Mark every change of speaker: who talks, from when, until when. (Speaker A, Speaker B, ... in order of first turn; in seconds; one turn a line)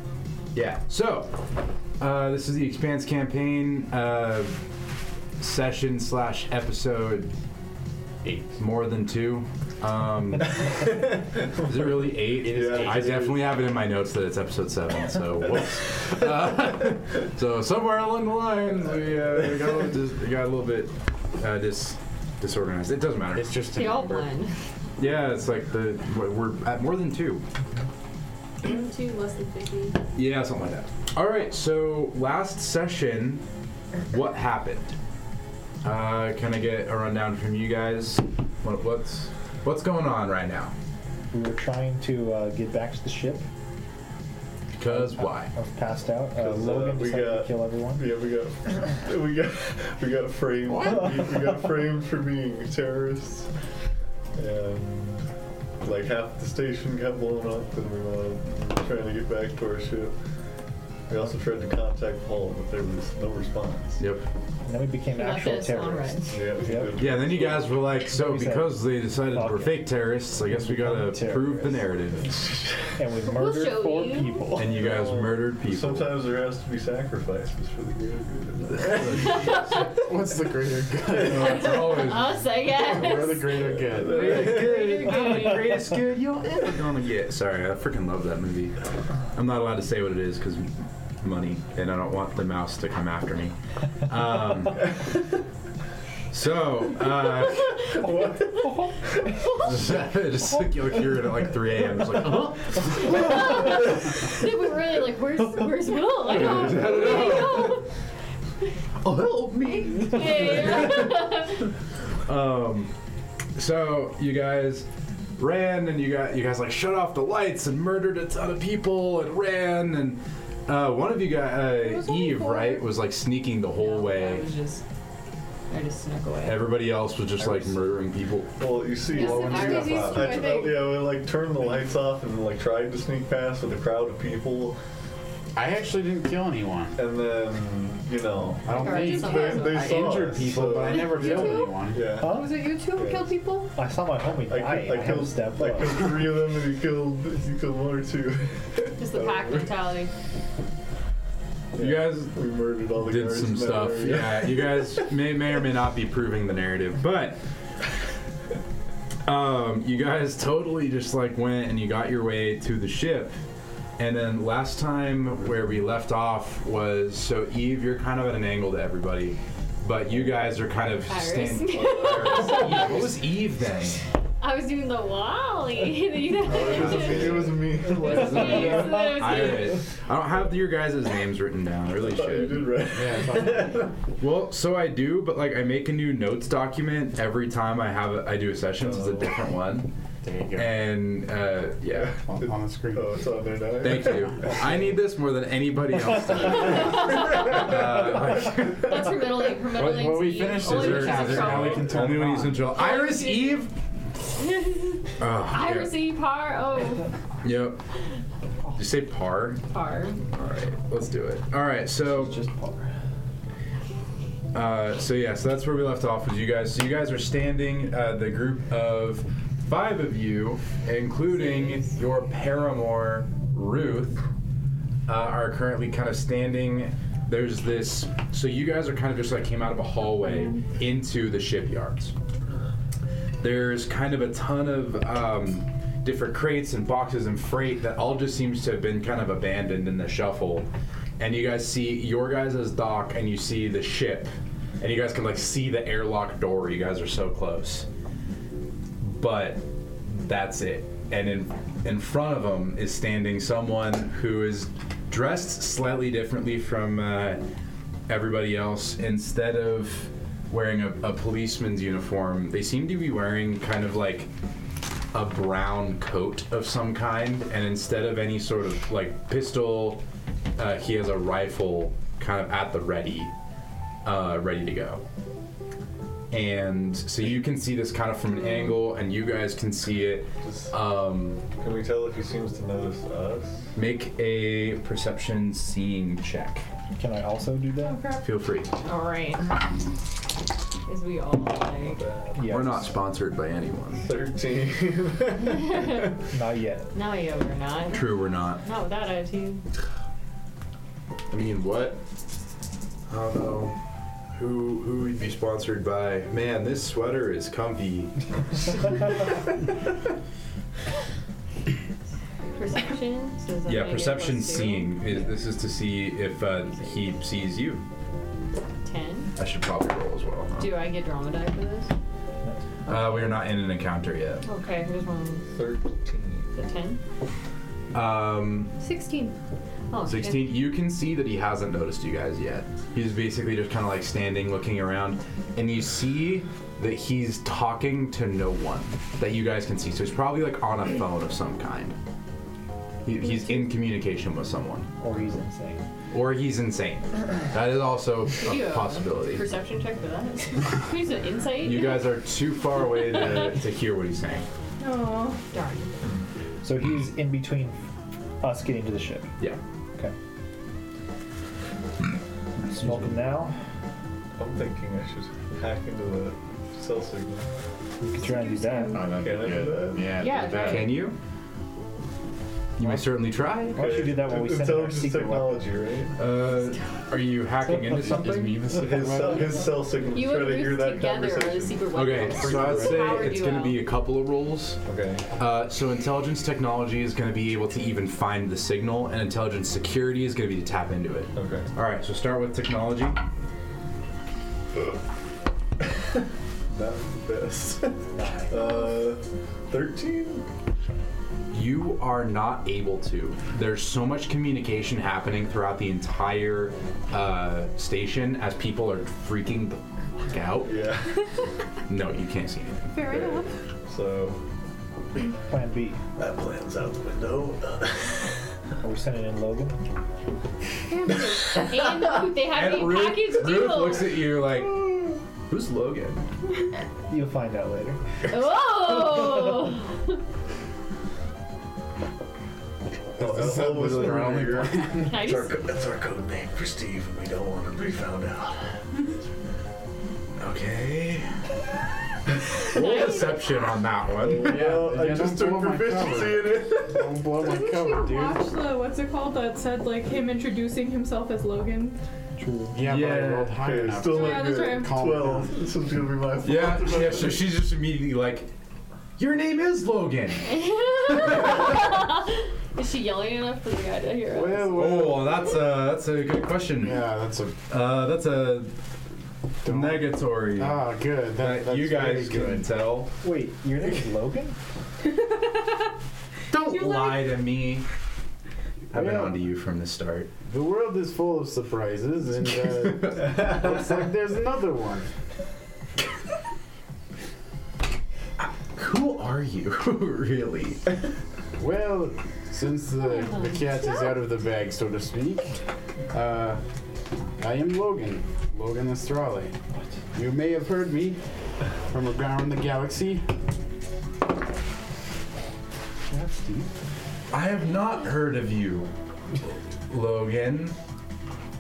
Speaker A: 0.5-1.4
Speaker A: 2.0-4.6
Speaker A: 5.4-7.3
Speaker B: 8.2-8.6
Speaker A: 8.6-10.9
Speaker C: 10.6-13.4
Speaker A: 11.6-23.8
Speaker B: 12.5-13.3
Speaker B: 23.3-24.3
Speaker D: 23.7-24.5
Speaker A: 25.0-27.4
Speaker D: 28.6-30.0
Speaker A: 30.2-33.4
Speaker A: 34.1-35.0
Speaker A: 35.8-40.7
Speaker E: 41.3-43.5
Speaker A: 44.8-45.5
Speaker E: 44.9-48.1
Speaker C: 46.4-53.5
Speaker B: 50.7-51.2
Speaker C: 54.4-55.2
Speaker C: 55.8-60.2
Speaker C: 61.1-64.0
Speaker A: 64.0-64.3
Speaker E: 64.7-67.0
Speaker D: 65.2-66.4
Speaker C: 66.3-67.8
Speaker A: 67.0-72.3
Speaker E: 68.1-70.0
Speaker E: 70.5-71.8
Speaker C: 72.3-72.8
Speaker E: 73.0-74.8
Speaker D: 73.3-74.5
Speaker A: 74.6-76.2
Speaker C: 74.6-79.4
Speaker A: 78.7-79.9
Speaker D: 79.1-79.9
Speaker B: 79.7-82.0
Speaker A: 81.2-82.5
Speaker D: 81.3-86.0
Speaker B: 82.7-84.3
Speaker C: 83.3-85.0
Speaker A: 84.0-88.8
Speaker A: 89.3-95.0
Speaker A: 96.3-98.1
Speaker D: 97.4-98.3
Speaker C: 98.0-98.6
Speaker D: 99.3-99.8
Speaker A: 99.5-103.6
Speaker D: 102.9-107.9
Speaker A: 106.2-107.8
Speaker A: 109.0-111.5
Speaker D: 109.7-111.7
Speaker A: 112.3-112.9
Speaker A: 113.6-124.5
Speaker F: 121.8-122.9
Speaker D: 123.8-124.8
Speaker D: 125.7-126.7
Speaker A: 126.4-128.6
Speaker C: 128.6-134.8
Speaker F: 129.1-130.8
Speaker D: 129.1-130.8
Speaker B: 135.6-137.0
Speaker C: 137.0-143.3
Speaker B: 138.6-142.2
Speaker D: 138.7-140.1
Speaker F: 138.8-139.6
Speaker D: 140.8-141.8
Speaker F: 141.2-141.5
Speaker E: 142.2-142.7
Speaker F: 142.2-143.7
Speaker E: 143.7-146.1
Speaker C: 144.5-149.8
Speaker D: 149.0-150.1
Speaker C: 151.7-154.9
Speaker A: 151.8-157.4
Speaker A: 159.2-163.4
Speaker A: 164.0-174.0
Speaker D: 171.1-173.1
Speaker C: 172.1-172.9
Speaker D: 174.4-179.8
Speaker C: 176.4-179.2
Speaker A: 176.6-182.8
Speaker C: 182.0-183.9
Speaker B: 182.9-183.8
Speaker A: 184.2-189.9
Speaker C: 188.8-189.3
Speaker B: 190.2-190.8
Speaker A: 190.6-192.2
Speaker C: 192.0-194.5
Speaker B: 192.2-193.1
Speaker A: 193.8-199.2
Speaker B: 196.3-196.7
Speaker D: 196.7-202.0
Speaker B: 199.8-202.7
Speaker A: 200.6-203.7
Speaker D: 202.7-203.7
Speaker D: 204.3-207.1
Speaker A: 205.2-205.9
Speaker A: 207.4-207.8
Speaker A: 208.8-209.6
Speaker D: 209.7-210.2
Speaker A: 210.2-212.3
Speaker E: 212.0-212.9
Speaker A: 214.5-224.2
Speaker D: 221.3-222.0
Speaker A: 225.1-232.1
Speaker F: 230.2-230.6
Speaker A: 233.4-240.7
Speaker A: 241.2-247.9
Speaker A: 249.0-257.4
Speaker A: 258.1-264.3
Speaker A: 265.1-270.0
Speaker A: 270.6-273.3
Speaker A: 274.0-275.0
Speaker A: 276.3-281.4
Speaker C: 280.4-280.7
Speaker C: 281.6-283.7
Speaker A: 283.8-286.7
Speaker E: 287.0-288.1
Speaker F: 287.8-288.3
Speaker A: 288.2-288.7
Speaker D: 288.9-289.5
Speaker D: 290.9-292.0
Speaker C: 291.8-292.4
Speaker E: 292.4-293.0
Speaker A: 292.4-294.1
Speaker C: 294.0-296.0
Speaker D: 295.5-296.1
Speaker E: 296.3-296.9
Speaker D: 296.9-299.6
Speaker A: 297.9-298.6
Speaker A: 301.3-302.0
Speaker A: 303.1-303.8
Speaker A: 304.3-308.2
Speaker D: 312.5-315.3
Speaker A: 313.7-317.9
Speaker D: 316.6-317.2
Speaker D: 318.8-319.3
Speaker A: 319.4-320.8
Speaker D: 320.6-321.9
Speaker A: 322.9-324.4
Speaker D: 322.9-323.3
Speaker D: 324.4-325.4
Speaker C: 325.5-326.5
Speaker D: 326.6-327.0
Speaker A: 327.9-328.8
Speaker F: 328.8-329.4
Speaker D: 329.9-330.6
Speaker A: 330.0-342.0
Speaker A: 343.0-344.9
Speaker F: 343.4-343.7
Speaker E: 345.0-345.9
Speaker A: 346.1-349.4
Speaker D: 348.4-352.1
Speaker A: 351.6-354.4
Speaker D: 352.9-353.5
Speaker F: 354.8-355.4
Speaker D: 355.5-355.9
Speaker E: 356.6-357.8
Speaker E: 358.4-359.3
Speaker A: 362.6-363.3
Speaker E: 362.7-363.6
Speaker C: 364.4-367.5
Speaker E: 368.0-369.0
Speaker F: 368.2-369.2
Speaker B: 368.9-371.0
Speaker C: 369.1-370.1
Speaker D: 370.2-371.0
Speaker A: 370.6-371.2
Speaker A: 372.8-374.1
Speaker E: 373.7-375.7
Speaker C: 373.8-376.2
Speaker A: 376.2-378.6
Speaker D: 376.5-376.8
Speaker E: 377.6-378.5
Speaker B: 378.0-379.7
Speaker C: 378.7-382.0
Speaker D: 380.0-383.9
Speaker A: 381.9-384.8
Speaker B: 382.3-383.3
Speaker C: 384.9-385.2
Speaker A: 385.4-393.2
Speaker C: 391.4-391.7
Speaker C: 396.7-400.4
Speaker E: 398.2-398.6
Speaker A: 401.5-410.7
Speaker C: 410.6-411.2
Speaker A: 411.9-413.0
Speaker F: 412.9-413.5
Speaker C: 413.0-414.4
Speaker E: 415.5-416.0
Speaker C: 416.2-418.3
Speaker E: 418.8-419.8
Speaker D: 421.1-424.2
Speaker C: 421.3-421.8
Speaker A: 422.4-426.2
Speaker E: 427.1-428.0
Speaker D: 428.3-430.2
Speaker B: 433.2-435.2
Speaker C: 433.2-438.8
Speaker D: 435.1-435.5
Speaker A: 440.4-441.3
Speaker A: 442.6-444.6
Speaker D: 442.7-443.6
Speaker C: 444.2-447.2
Speaker B: 444.3-448.5
Speaker F: 447.4-452.0
Speaker E: 452.4-452.8
Speaker B: 452.7-455.6
Speaker A: 452.8-453.6
Speaker C: 453.6-457.4
Speaker F: 454.1-455.1
Speaker A: 456.4-458.5
Speaker A: 459.2-462.0
Speaker D: 460.5-464.9
Speaker B: 464.3-465.5
Speaker A: 464.7-467.1
Speaker B: 466.8-467.6
Speaker A: 467.7-468.7
Speaker A: 469.6-473.1
Speaker B: 469.6-472.7
Speaker E: 473.2-474.6
Speaker A: 476.5-477.9
Speaker F: 476.7-477.3
Speaker A: 478.9-480.3
Speaker B: 478.9-479.4
Speaker B: 480.4-485.1
Speaker A: 482.7-483.5
Speaker A: 488.4-490.8
Speaker B: 491.6-495.6
Speaker D: 493.3-493.6
Speaker B: 496.1-496.6
Speaker B: 497.4-499.6
Speaker B: 500.1-501.2
Speaker B: 501.9-503.3
Speaker E: 506.1-506.7
Speaker A: 507.3-508.9
Speaker A: 509.9-510.8